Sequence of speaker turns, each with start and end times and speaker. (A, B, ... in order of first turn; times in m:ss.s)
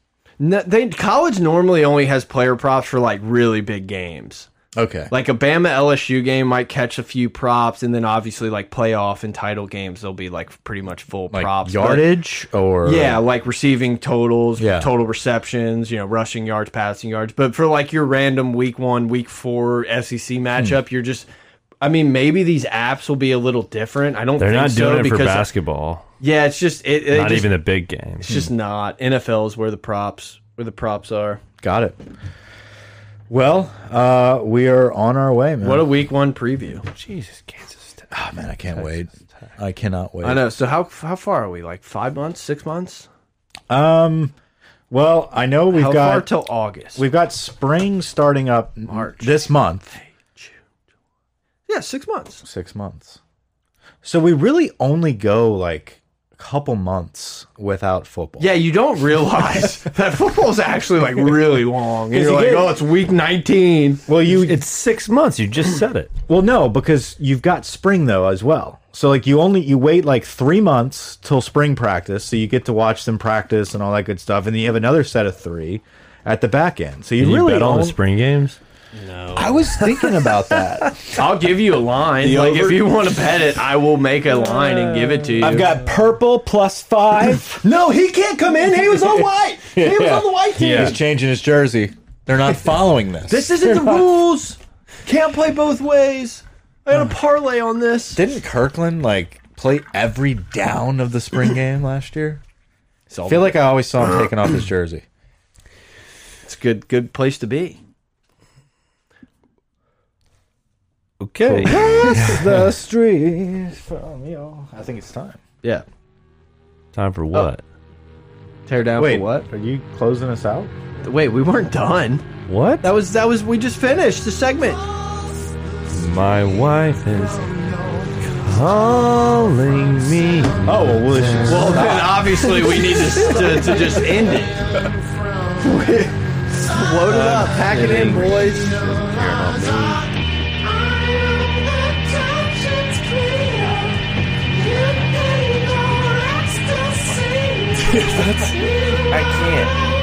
0:00.4-0:04.5 A
0:04.7-0:05.1 B
0:05.1-0:12.1 A
0:11.3-0:13.2 B
0:12.8-0:21.3 A
0:14.6-0:14.9 B
0:21.8-0:25.5 A
0:24.4-0:26.0 C
0:26.2-0:27.5 A
0:27.1-0:28.4 C
0:28.2-0:31.4 A
0:31.6-0:32.0 B
0:33.3-0:35.9 B
0:35.6-0:36.9 A
0:36.9-0:38.1 C
0:38.1-0:40.4 B
0:40.2-0:43.1 A
0:43.7-0:44.3 B
0:44.9-0:46.3 B
0:45.7-0:47.0 A
0:47.0-0:50.0 B
0:48.9-0:49.4 A
0:51.7-0:52.4 A
0:52.4-0:53.2 B
0:54.0-0:58.6 B
0:58.4-1:04.0 A
1:02.1-1:02.8 B
1:04.1-1:04.6 B
1:04.2-1:06.1 C
1:06.3-1:18.0 B
1:17.2-1:18.6 C
1:18.9-1:19.9 A
1:19.4-1:21.2 B
1:21.1-1:25.7 A
1:22.2-1:22.9 B
1:25.4-1:27.6 B
1:27.6-1:31.0 A
1:28.8-1:34.1 B
1:30.6-1:31.0 C
1:33.3-1:38.2 A
1:38.1-1:42.4 B
1:43.1-1:43.5 A
1:43.3-1:45.0 B
1:46.4-1:47.8 A
1:51.2-1:52.6 C
1:51.4-1:55.4 B
1:51.7-1:52.4 A
1:56.9-1:57.6 C
1:58.7-1:59.5 A
1:59.0-2:00.7 B
2:01.0-2:02.2 A
2:02.5-2:02.8 C
2:02.8-2:04.8 A
2:05.9-2:07.5 C
2:08.3-2:10.8 C
2:10.6-2:12.3 B
2:11.5-2:14.6 A
2:15.6-2:18.7 A
2:16.8-2:20.1 C
2:27.9-2:28.7 A
2:27.9-2:29.7 C